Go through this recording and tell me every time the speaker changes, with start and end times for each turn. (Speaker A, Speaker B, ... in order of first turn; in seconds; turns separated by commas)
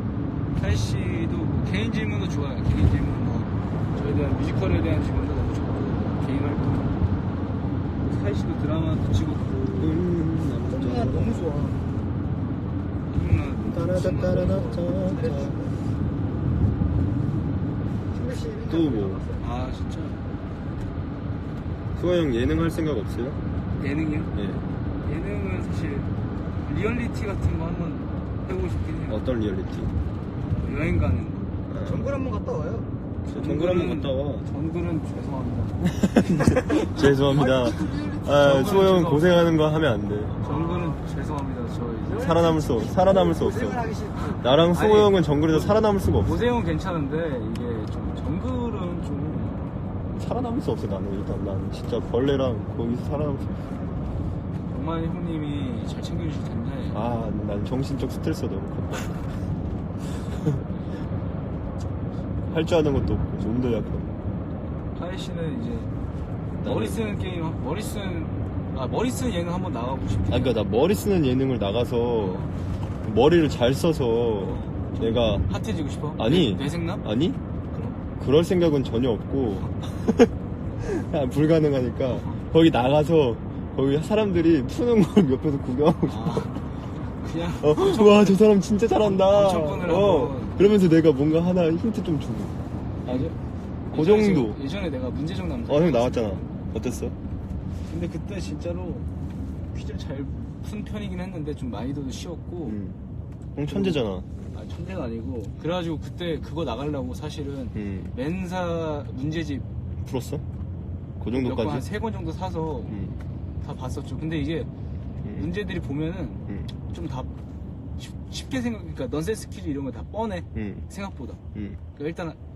Speaker A: 0.5-7.0, Speaker A: 8.0-10.0, Speaker B: 9.8-11.4, Speaker A: 10.6-11.8, Speaker A: 13.1-15.0, Speaker B: 13.6-15.6, Speaker C: 15.1-15.8, Speaker C: 18.1-19.4, Speaker B: 18.6-19.2, Speaker A: 19.4-20.2, Speaker B: 21.9-23.4, Speaker A: 23.8-24.3, Speaker B: 24.3-24.6, Speaker A: 25.0-26.1, Speaker A: 26.6-29.2, Speaker B: 29.1-29.9, Speaker A: 30.4-31.5, Speaker B: 31.7-32.2, Speaker C: 31.8-32.9, Speaker B: 33.2-34.5, Speaker A: 33.3-37.2, Speaker B: 36.0-40.4, Speaker C: 37.3-38.3, Speaker A: 38.2-39.5, Speaker A: 40.4-42.3, Speaker C: 40.4-41.0, Speaker C: 42.0-44.4, Speaker B: 42.1-46.5, Speaker A: 44.7-49.8, Speaker B: 50.1-53.6, Speaker A: 54.7-57.0, Speaker B: 56.9-59.2, Speaker B: 60.2-60.6, Speaker B: 62.5-64.1, Speaker A: 64.9-65.9, Speaker B: 66.6-67.1, Speaker A: 66.6-70.6, Speaker B: 70.3-72.5, Speaker A: 72.2-72.5, Speaker B: 73.0-75.5, Speaker A: 74.4-77.0, Speaker B: 76.2-77.4, Speaker A: 77.7-78.0, Speaker B: 78.2-86.6, Speaker A: 82.1-82.4, Speaker A: 86.0-88.4, Speaker B: 87.6-92.5, Speaker A: 89.0-90.7, Speaker A: 93.0-93.4, Speaker B: 93.0-93.3, Speaker B: 93.9-94.6, Speaker A: 93.9-96.5, Speaker B: 95.7-97.2, Speaker A: 97.9-99.1, Speaker A: 99.6-102.8, Speaker B: 102.7-103.0, Speaker B: 103.5-104.3, Speaker A: 103.7-109.7, Speaker B: 107.7-108.1, Speaker B: 110.0-110.4, Speaker B: 111.2-111.9, Speaker A: 111.3-113.0, Speaker B: 112.9-113.2, Speaker A: 113.6-114.7, Speaker B: 115.2-115.5, Speaker A: 115.3-117.3, Speaker B: 116.5-116.7, Speaker A: 118.0-121.4, Speaker B: 120.5-120.8, Speaker B: 121.5-121.8, Speaker A: 121.9-122.4